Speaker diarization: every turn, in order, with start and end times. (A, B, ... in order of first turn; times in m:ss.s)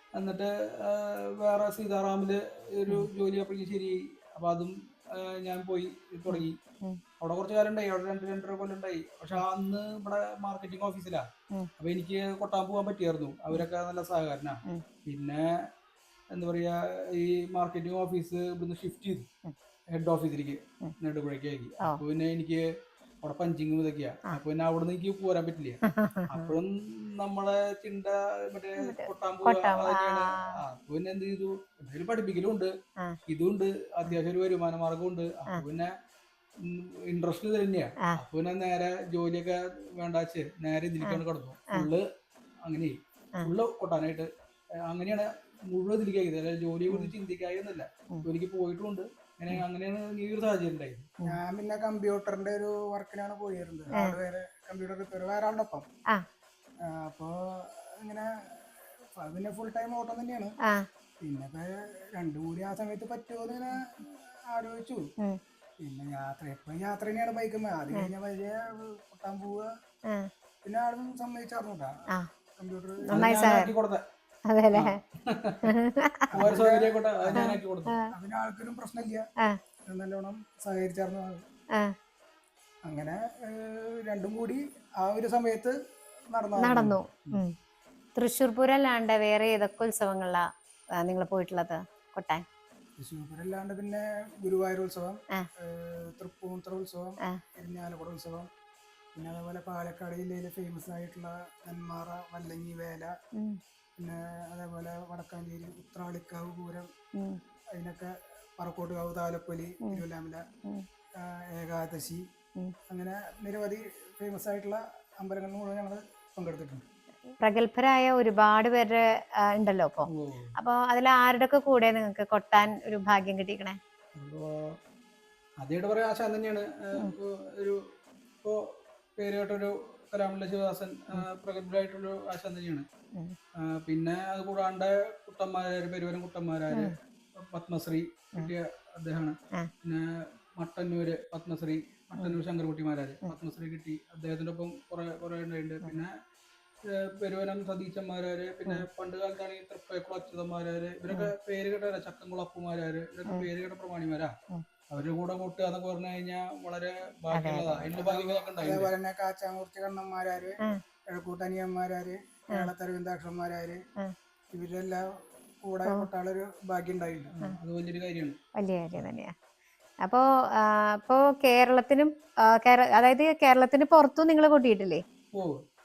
0:00.2-0:06.6 A
0:06.3-0:07.0 B
0:07.2-0:11.3 A
0:11.8-0:15.6 A
0:16.3-0:19.3 A
0:19.9-0:22.6 A
0:23.2-0:32.7 A
0:25.8-0:26.6 B
0:28.8-0:30.6 B
0:33.3-0:35.9 A
0:36.6-0:42.0 A
0:42.7-0:44.3 A
0:44.8-0:51.1 A
0:51.3-0:55.9 C
0:56.8-1:00.5 C
1:01.2-1:05.0 C
1:05.8-1:09.7 C
1:10.6-1:12.0 C
1:12.6-1:13.4 C
1:13.1-1:13.7 B
1:13.1-1:14.0 A
1:14.5-1:15.0 B
1:14.7-1:15.7 A
1:15.6-1:16.4 B
1:16.3-1:17.6 C
1:16.4-1:17.9 A
1:17.4-1:18.1 B
1:18.1-1:19.2 C
1:19.9-1:21.4 C
1:22.9-1:25.8 C
1:26.3-1:27.0 C
1:26.6-1:27.5 B
1:28.2-1:32.4 B
1:33.0-1:38.5 C
1:39.2-1:43.1 C
1:43.4-1:43.6 B
1:44.0-1:46.9 C
1:47.2-1:47.4 B
1:47.7-1:50.4 C
1:51.2-1:52.3 C
1:52.9-1:56.8 C
1:57.3-2:03.8 B
2:00.1-2:00.6 A
2:04.2-2:04.8 A
2:05.6-2:07.8 A
2:09.2-2:12.9 A
2:13.6-2:20.1 A
2:20.6-2:26.1 A
2:26.9-2:34.4 A
2:34.9-2:38.9 A
2:37.3-2:37.9 B
2:37.9-2:40.6 C
2:41.1-2:43.8 C
2:44.5-2:45.0 C
2:45.6-2:47.4 C
2:47.3-2:48.4 A
2:48.6-2:49.3 B
2:50.0-2:55.0 B
2:55.3-2:55.6 A